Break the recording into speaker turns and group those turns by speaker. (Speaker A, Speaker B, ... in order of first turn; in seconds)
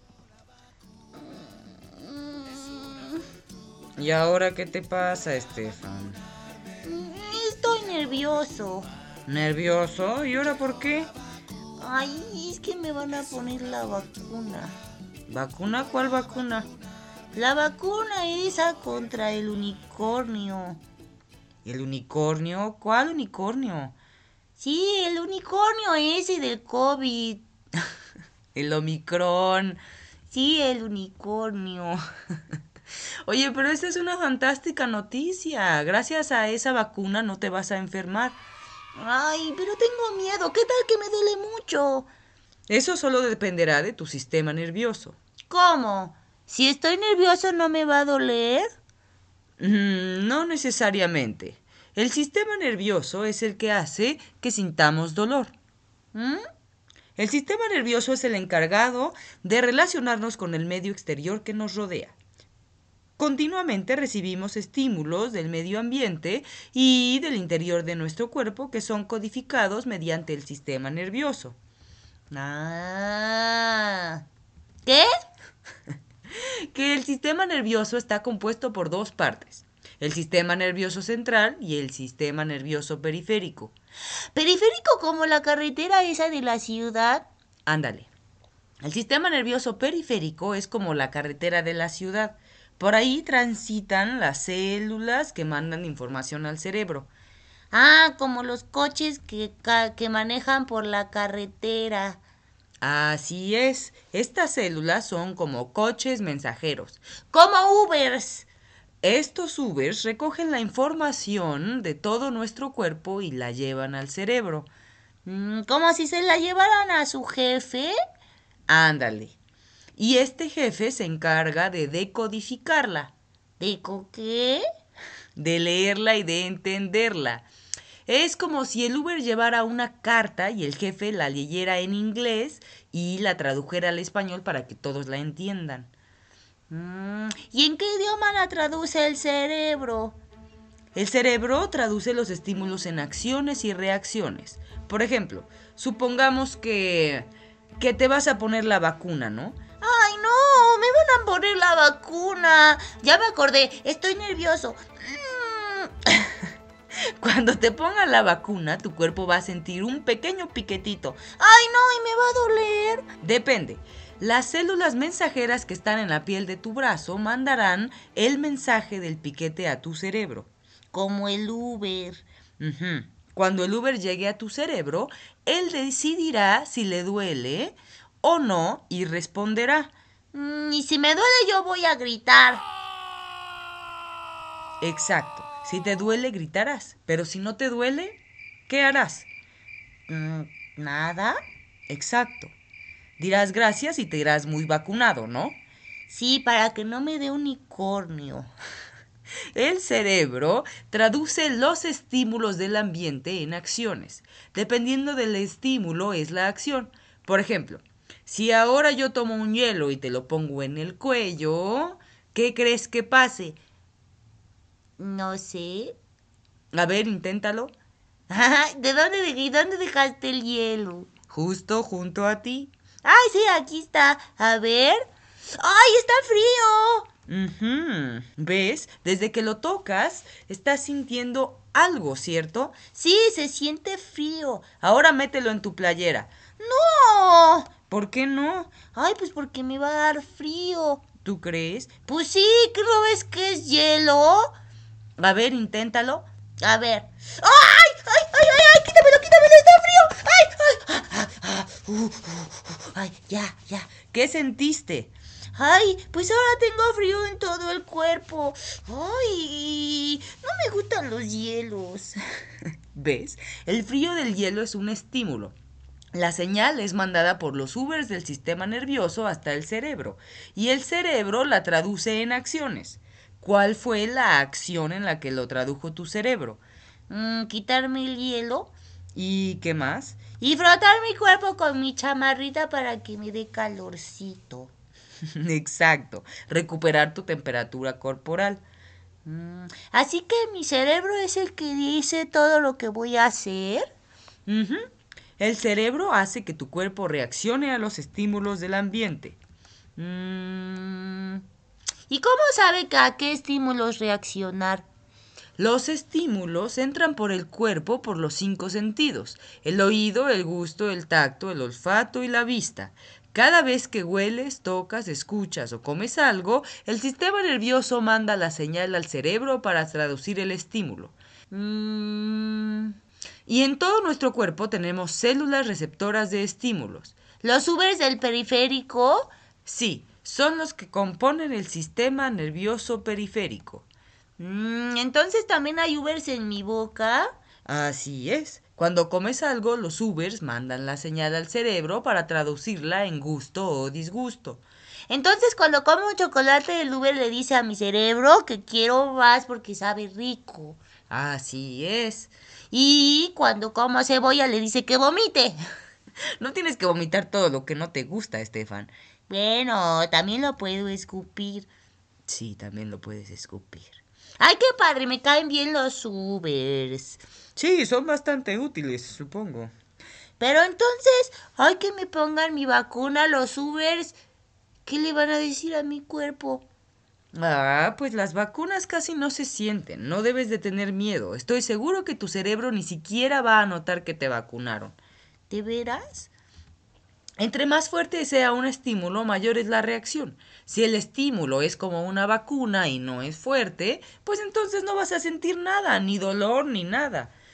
Speaker A: 1.2-3.2, 6.8-8.9, 11.8-14.7, 17.3-20.8, 24.6-27.5, 30.3-32.0, 39.0-42.1, 45.5-48.7, 56.1-56.4, 72.3-74.2, 84.3-87.3, 97.7-102.2, 107.3-108.5, 115.2-118.0, 123.6-124.6, 136.7-140.2, 149.8-155.9, 161.4-163.1, 170.9-172.2, 180.3-182.7, 190.1-191.4, 196.1-198.5, 215.0-216.0, 218.3-221.1, 223.0-225.1, 225.6-227.1, 232.9-234.7, 236.6-237.7, 238.9-241.1, 242.1-244.5, 246.6-253.9, 255.6-262.2, 277.1-278.7, 280.4-284.7, 289.3-293.9, 302.1-304.9, 327.4-329.3, 334.4-337.3, 345.1-350.8, 352.7-355.6, 359.3-361.7, 364.4-367.2, 370.4-374.2, 374.9-376.7, 385.5-386.3
Speaker B: 4.0-6.2, 9.3-11.1, 15.3-16.7, 21.6-24.0, 28.6-29.8, 33.3-38.4, 42.7-45.2, 49.6-55.5, 57.2-62.2, 63.2-71.6, 76.3-83.7, 87.7-88.1, 88.8-97.1, 102.8-107.0, 109.0-114.7, 118.7-119.4, 120.0-123.1, 125.4-127.5, 128.1-135.9, 140.9-149.6, 157.2-161.3, 163.2-170.5, 172.6-179.9, 184.8-189.3, 191.9-192.6, 193.2-195.6, 199.6-213.6, 216.7-217.7, 221.3-222.7, 227.3-232.8, 234.8-236.3, 237.9-238.8, 241.2-241.9, 245.2-246.3, 254.0-255.1, 262.9-265.6, 266.1-276.6, 279.1-280.2, 285.4-288.6, 294.5-294.9, 295.4-299.4, 300.0-301.0, 305.6-322.9, 323.5-327.2, 329.6-333.9, 337.6-344.6, 351.1-352.3, 356.4-358.9, 362.3-363.9, 367.6-369.7, 377.3-385.0, 387.4-397.3